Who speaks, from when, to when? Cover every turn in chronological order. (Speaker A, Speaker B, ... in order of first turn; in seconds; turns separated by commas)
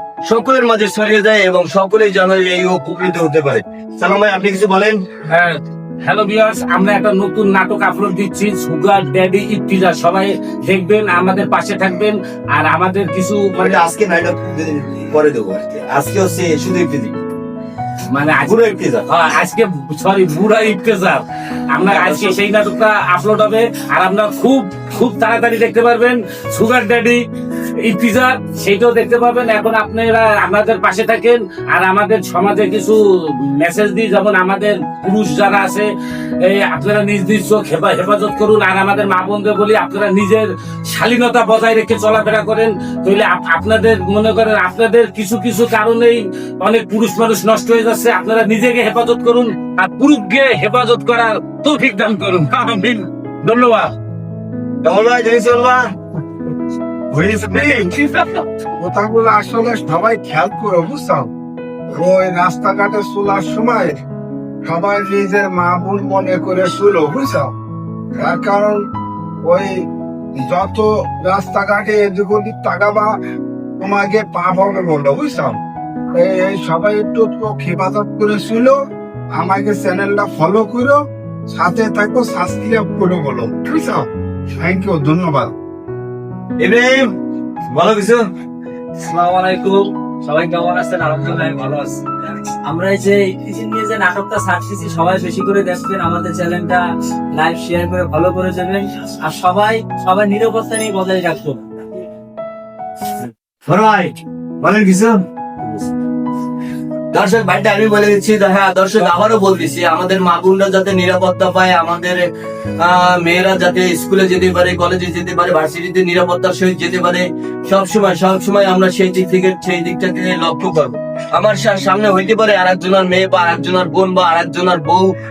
Speaker A: 0.3-5.0, Speaker B: 5.3-13.8, Speaker A: 13.6-17.1, Speaker B: 18.1-27.2, Speaker A: 18.4-19.1, Speaker A: 21.9-22.4, Speaker B: 27.8-35.9, Speaker B: 36.4-53.9, Speaker A: 54.8-55.9, Speaker A: 57.1-58.4, Speaker C: 57.5-57.9, Speaker C: 58.8-61.3, Speaker C: 61.9-64.0, Speaker C: 64.7-67.5, Speaker C: 68.2-68.8, Speaker C: 69.5-69.8, Speaker C: 70.3-73.1, Speaker C: 73.8-75.6, Speaker C: 76.2-78.8, Speaker C: 79.4-81.0, Speaker C: 81.5-84.1, Speaker C: 84.6-85.5, Speaker A: 86.6-87.1, Speaker A: 87.7-88.2, Speaker D: 89.0-92.0, Speaker D: 92.7-101.6, Speaker A: 103.2-105.9, Speaker A: 107.1-112.2, Speaker A: 112.8-125.1